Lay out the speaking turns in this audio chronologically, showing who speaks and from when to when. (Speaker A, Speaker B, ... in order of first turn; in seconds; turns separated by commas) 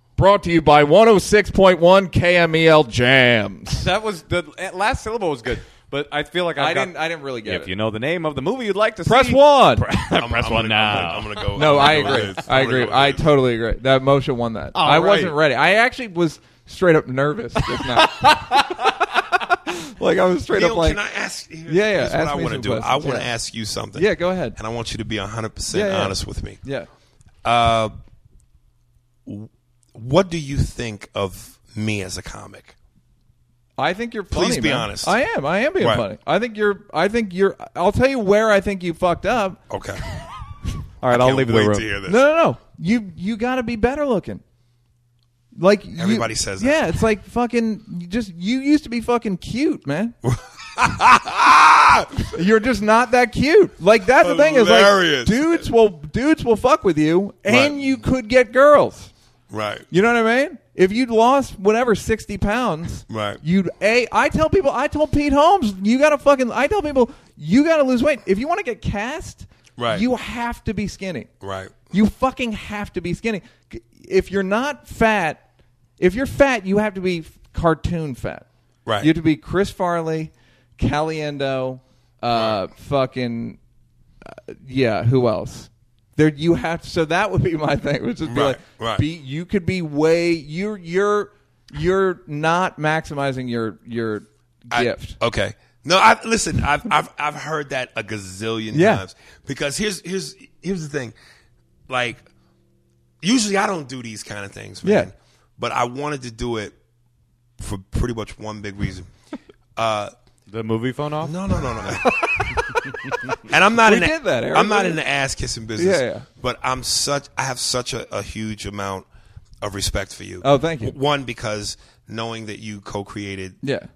Speaker A: 0.2-3.9, Speaker B: 3.7-12.4, Speaker A: 6.6-7.7, Speaker A: 9.1-9.9, Speaker C: 10.2-13.3, Speaker A: 11.6-21.0, Speaker B: 14.8-15.4, Speaker B: 17.7-19.0, Speaker C: 20.5-26.6, Speaker A: 21.7-23.3, Speaker A: 23.9-24.6, Speaker A: 25.7-26.9, Speaker C: 27.4-27.9, Speaker C: 29.3-32.7, Speaker A: 33.8-39.6, Speaker C: 34.3-35.2, Speaker C: 39.7-40.0, Speaker B: 41.0-41.9, Speaker C: 41.1-42.2, Speaker A: 42.0-44.4, Speaker A: 45.6-50.2, Speaker C: 46.0-46.8, Speaker C: 50.2-52.3, Speaker A: 52.3-59.1, Speaker C: 54.2-55.6, Speaker C: 57.5-57.8, Speaker C: 59.5-59.9, Speaker A: 59.9-71.3, Speaker C: 63.1-63.4, Speaker C: 69.8-70.0, Speaker C: 71.4-71.8, Speaker A: 71.9-75.4, Speaker A: 76.0-78.5, Speaker A: 79.0-83.6, Speaker A: 84.2-95.2, Speaker C: 88.3-89.0, Speaker C: 94.7-101.2, Speaker A: 98.7-99.0, Speaker C: 101.9-102.3, Speaker C: 103.2-106.8, Speaker A: 104.8-105.1, Speaker C: 107.6-109.1, Speaker C: 109.8-110.1, Speaker B: 110.5-112.0, Speaker C: 111.2-112.6, Speaker A: 112.1-112.8, Speaker B: 112.7-113.3, Speaker C: 113.4-119.1, Speaker A: 113.8-115.0, Speaker A: 115.8-116.3, Speaker C: 119.6-123.6, Speaker A: 120.4-121.0, Speaker A: 123.6-123.9